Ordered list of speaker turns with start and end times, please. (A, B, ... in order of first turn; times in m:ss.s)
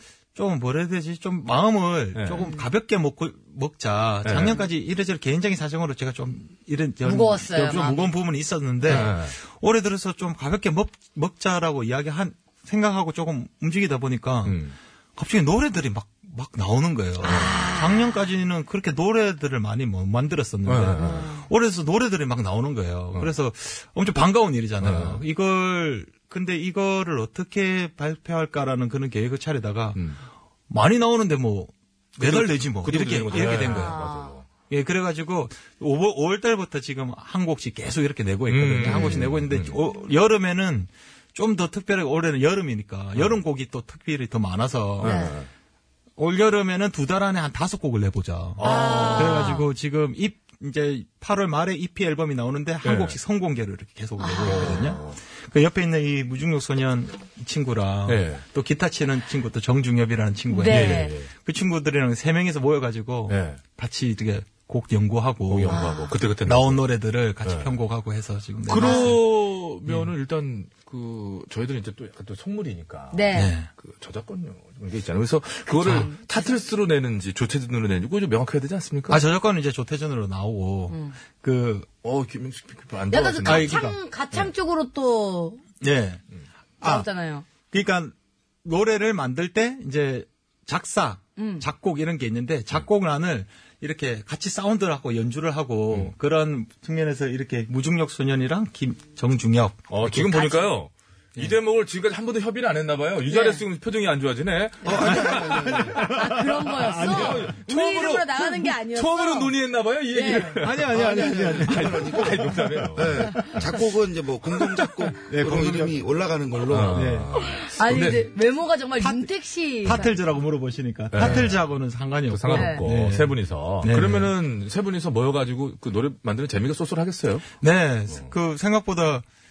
0:00.4-0:30.1 A
0:02.1-0:02.6 B
0:04.2-0:04.7 B
0:07.0-0:08.1 C
0:08.8-0:09.3 B
0:14.4-0:14.8 B
0:17.2-0:18.1 C
0:17.2-0:17.7 B
0:20.7-0:21.3 B
0:21.0-0:21.4 C
0:24.8-0:25.2 B
0:30.7-0:45.3 A
0:32.2-0:34.5 B
0:33.4-0:34.4 C
0:38.5-0:39.8 B
0:38.8-0:39.3 C
0:45.0-0:45.5 B
0:45.0-0:45.3 C
0:46.2-1:09.2 A
0:48.6-0:49.4 B
0:48.6-0:49.7 C
0:52.8-0:53.2 B
0:54.2-0:55.0 C
0:54.4-0:55.2 B
0:58.1-0:58.5 B
1:00.5-1:01.2 C
1:00.7-1:01.3 B
1:03.3-1:03.6 B
1:05.5-1:06.9 B
1:05.7-1:06.2 C
1:07.5-1:07.7 B
1:08.7-1:19.3 B
1:08.7-1:09.1 C
1:09.9-1:10.1 A
1:13.1-1:13.5 C
1:13.3-1:13.7 A
1:15.7-1:16.6 C
1:15.8-1:16.1 A
1:19.1-1:21.9 A
1:20.9-1:21.2 C
1:22.0-1:23.9 B
1:23.1-1:25.6 C
1:23.4-1:24.0 A
1:25.8-1:26.2 A
1:26.8-1:27.5 C
1:26.8-1:28.1 A
1:28.6-1:40.6 A
1:31.4-1:31.6 C
1:39.9-1:46.4 B
1:40.3-1:40.6 C
1:43.3-1:43.6 C
1:44.8-1:45.9 D
1:45.1-1:47.5 A
1:46.1-1:49.6 C
1:47.0-1:53.7 B
1:50.1-1:50.6 C
1:50.6-1:53.7 A
1:50.9-1:57.0 D
1:54.6-1:56.1 A
1:56.7-1:58.2 B
1:56.8-1:57.4 A
1:57.4-2:00.2 C
1:59.0-2:04.3 A
2:01.1-2:07.5 B
2:02.5-2:02.8 C
2:07.6-2:09.2 A